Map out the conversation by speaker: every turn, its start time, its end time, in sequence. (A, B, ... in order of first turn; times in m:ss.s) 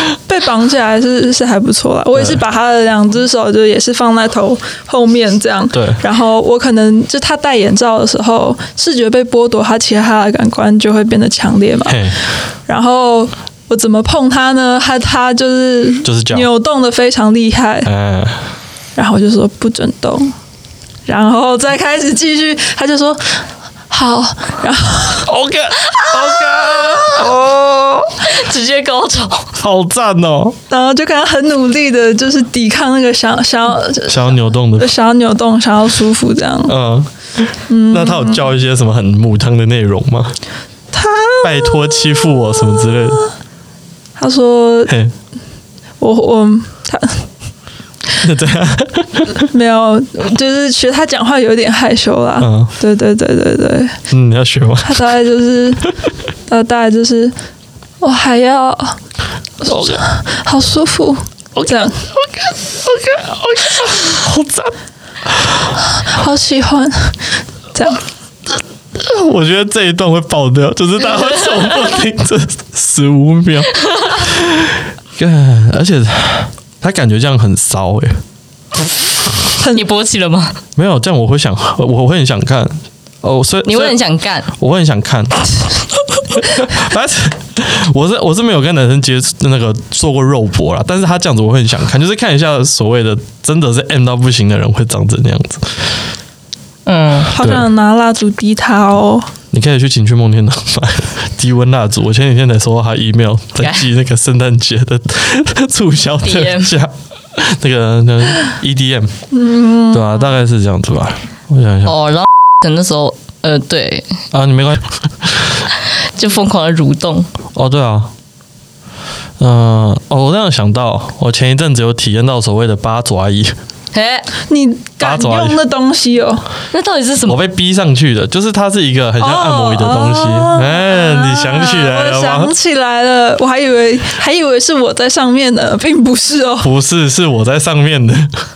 0:00.3-0:12.0 A
0:02.1-0:02.4 B
0:05.7-0:06.0 B
0:11.8-0:12.2 B
0:12.7-0:17.9 A
0:16.0-0:16.5 B
0:17.8-0:18.5 B
0:19.0-0:20.3 A
0:21.1-0:25.3 A
0:25.2-0:28.2 B
0:25.9-0:27.4 C
0:28.2-0:29.5 C
0:29.6-0:30.6 B
0:30.7-0:36.8 A
0:34.1-0:34.9 B
0:36.7-0:40.4 B
0:37.7-0:38.5 A
0:40.9-0:43.0 A
0:41.4-0:43.2 B
0:44.2-0:44.9 A
0:44.9-0:45.1 B
0:46.0-0:47.2 A
0:48.2-0:49.5 B
0:49.5-0:54.0 A
0:52.4-0:52.7 B
0:54.1-0:55.0 B
0:54.8-0:55.9 A
0:56.5-0:57.3 A
0:58.0-0:59.0 A
0:59.6-1:02.0 A
0:59.6-1:00.0 B
1:01.6-1:04.7 B
1:06.0-1:07.2 A
1:07.7-1:08.0 A
1:09.0-1:18.2 B
1:19.7-1:20.6 C
1:20.8-1:24.0 B
1:23.6-1:24.5 C
1:24.6-1:25.7 B
1:26.3-1:36.0 B
1:36.9-1:37.3 C
1:37.3-1:39.3 A
1:37.4-1:37.7 B
1:39.5-1:49.1 B
1:43.6-1:43.9 C
1:46.2-1:46.7 C
1:49.3-1:50.1 A
1:49.9-1:52.0 B
1:51.9-1:54.0 C
1:54.3-1:55.5 B
1:56.2-1:57.3 C
1:57.5-1:58.1 B
1:59.4-2:03.6 B
2:03.9-2:04.3 C
2:04.5-2:06.5 A
2:05.0-2:05.6 B
2:06.7-2:07.4 C
2:07.3-2:12.5 B
2:09.2-2:16.7 A
2:16.6-2:18.3 B